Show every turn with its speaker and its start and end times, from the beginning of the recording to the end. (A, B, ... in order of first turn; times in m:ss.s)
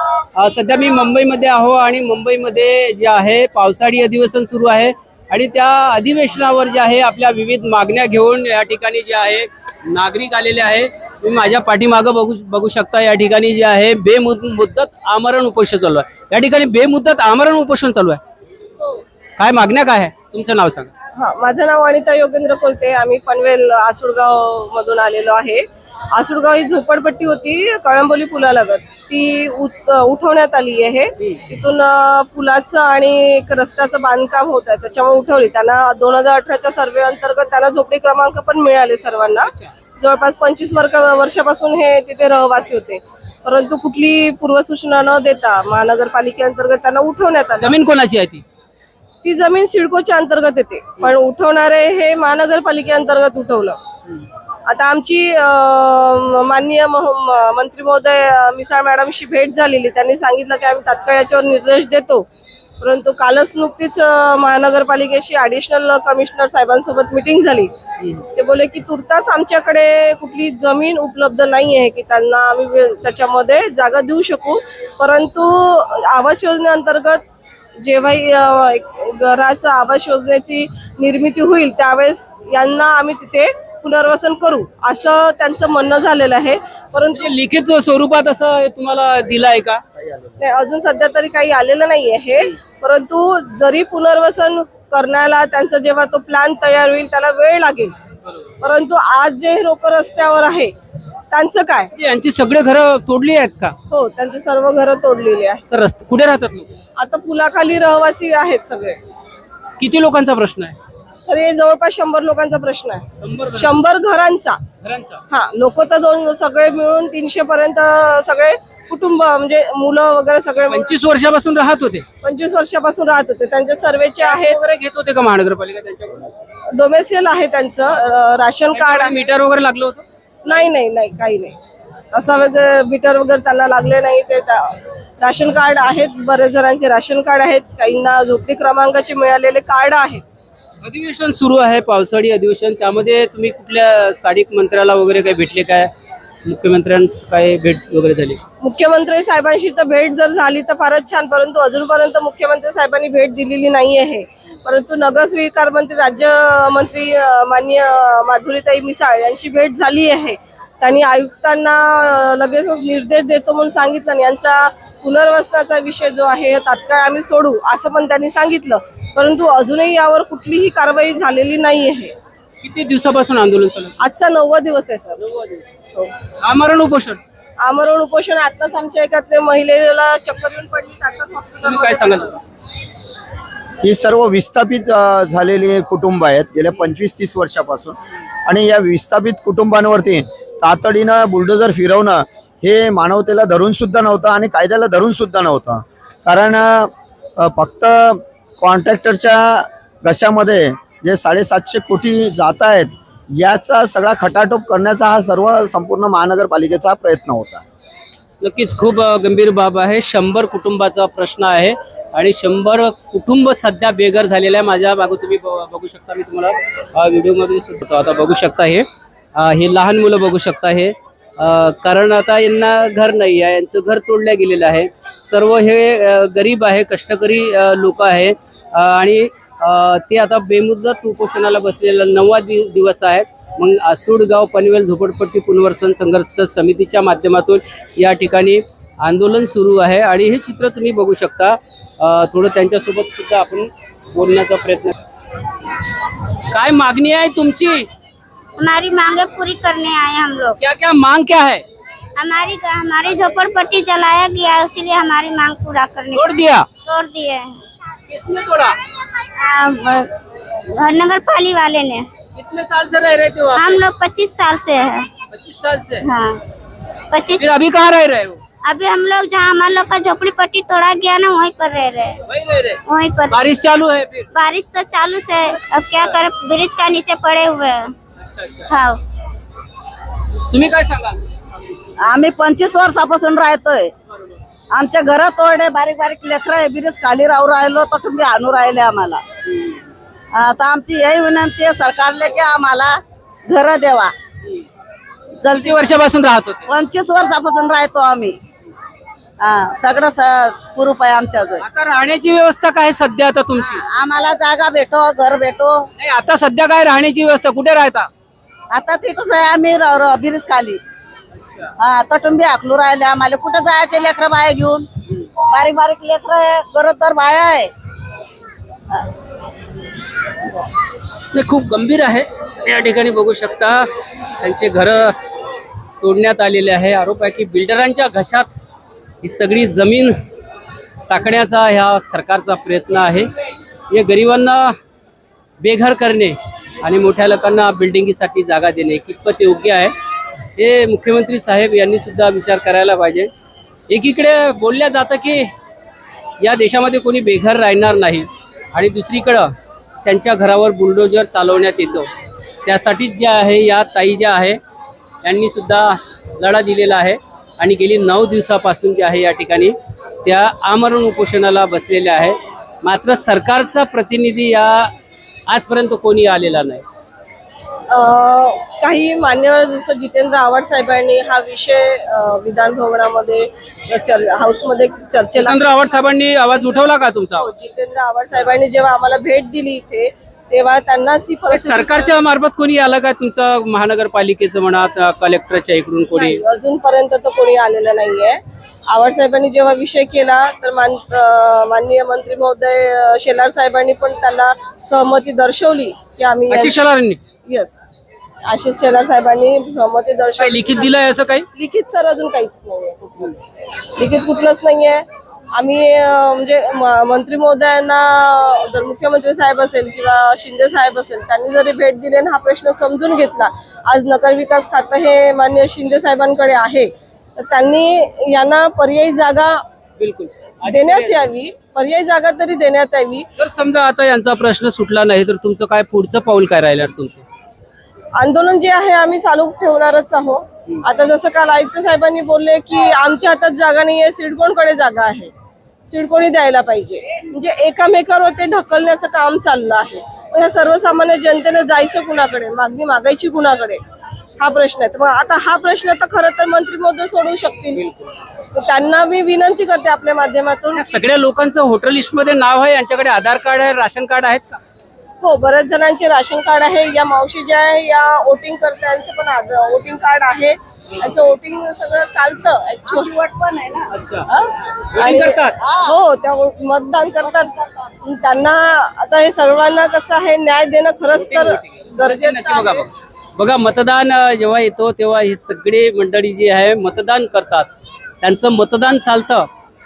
0:00.4-0:18.2 A
0:19.4-0:20.9 A
0:21.1-0:47.7 B
0:47.6-0:48.4 A
0:49.2-0:53.8 B
0:54.7-1:02.3 B
1:02.8-1:07.7 B
1:08.3-1:17.2 B
1:17.8-1:27.3 B
1:27.1-1:29.8 A
1:30.4-1:37.9 B
1:38.6-1:40.7 B
1:41.3-1:41.9 B
1:42.0-1:43.8 A
1:43.9-1:45.6 B
1:45.7-1:46.8 A
1:47.0-1:49.0 B
1:49.8-1:50.7 A
1:51.3-1:54.6 B
1:53.2-1:53.8 A
1:54.8-1:55.2 A
1:55.3-2:00.9 B
2:00.7-2:02.0 A
2:02.2-2:04.6 B
2:04.2-2:06.3 A
2:06.7-2:09.2 B
2:08.7-2:10.0 A
2:10.4-2:11.6 B
2:12.1-2:20.2 B
2:20.8-2:25.9 A
2:26.4-2:28.4 A
2:28.6-2:52.1 B
2:52.6-2:54.0 A
2:54.0-2:55.2 B
2:55.2-2:55.6 A
2:56.4-2:57.2 A
2:57.6-3:02.4 B
3:01.6-3:02.4 A
3:03.8-3:07.9 C
3:08.4-3:27.6 C
3:28.4-4:04.9 A
4:06.5-4:07.9 A
4:08.7-4:10.5 D
4:10.6-4:11.6 A
4:12.2-4:16.3 D
4:16.1-4:16.7 A
4:16.9-4:17.4 E
4:18.1-4:18.8 A
4:19.6-4:19.8 D
4:20.8-4:22.0 E
4:20.9-4:21.8 D
4:22.3-4:23.9 A
4:23.6-4:24.9 D
4:23.8-4:24.2 E
4:25.3-4:26.1 A
4:27.4-4:28.4 A
4:28.8-4:32.1 D
4:32.3-4:34.3 A
4:32.9-4:33.2 D
4:34.4-4:37.7 D
4:38.2-4:38.7 A
4:40.5-4:41.3 A
4:42.0-4:43.9 E
4:44.7-4:49.2 E
4:50.3-4:54.1 E
4:55.4-4:55.9 E
4:55.6-4:56.6 A
4:56.7-4:58.4 E
4:59.4-5:01.6 E
5:01.6-5:03.8 A
5:03.5-5:05.9 E
5:06.0-5:08.1 A
5:08.7-5:10.8 E
5:11.8-5:17.7 E
5:21.3-5:23.9 A
5:24.4-5:25.1 A
5:26.0-5:28.5 A
5:29.2-5:30.1 A
5:31.1-5:33.3 A
5:33.9-5:34.7 A
5:35.6-5:39.9 A
5:40.6-5:43.3 A
5:43.9-5:45.5 A
5:46.4-5:49.5 A
5:50.0-5:52.1 A
5:52.6-5:54.6 A
5:55.2-6:04.9 A
6:05.5-6:06.8 A
6:07.9-6:15.7 B
6:15.4-6:17.5 A
6:17.3-6:22.1 B
6:21.5-6:26.4 A
6:26.2-6:36.8 B
6:36.5-6:37.2 A
6:37.5-6:37.8 B
6:38.5-6:40.9 B
6:40.4-6:41.4 A
6:41.5-6:59.6 B
7:00.0-7:01.2 A
7:00.6-7:03.3 B
7:03.4-7:07.2 A
7:08.2-7:15.3 B
7:15.9-7:23.8 B
7:24.4-7:27.9 B
7:28.5-7:30.9 B
7:30.7-7:34.6 A
7:35.2-7:43.1 B
7:42.8-7:43.9 E
7:43.9-7:44.3 A
7:44.3-7:47.5 B
7:44.9-7:45.6 A
7:45.6-7:46.0 E
7:47.2-7:47.9 E
7:48.0-7:52.8 B
7:51.1-7:57.7 A
7:58.2-7:59.5 A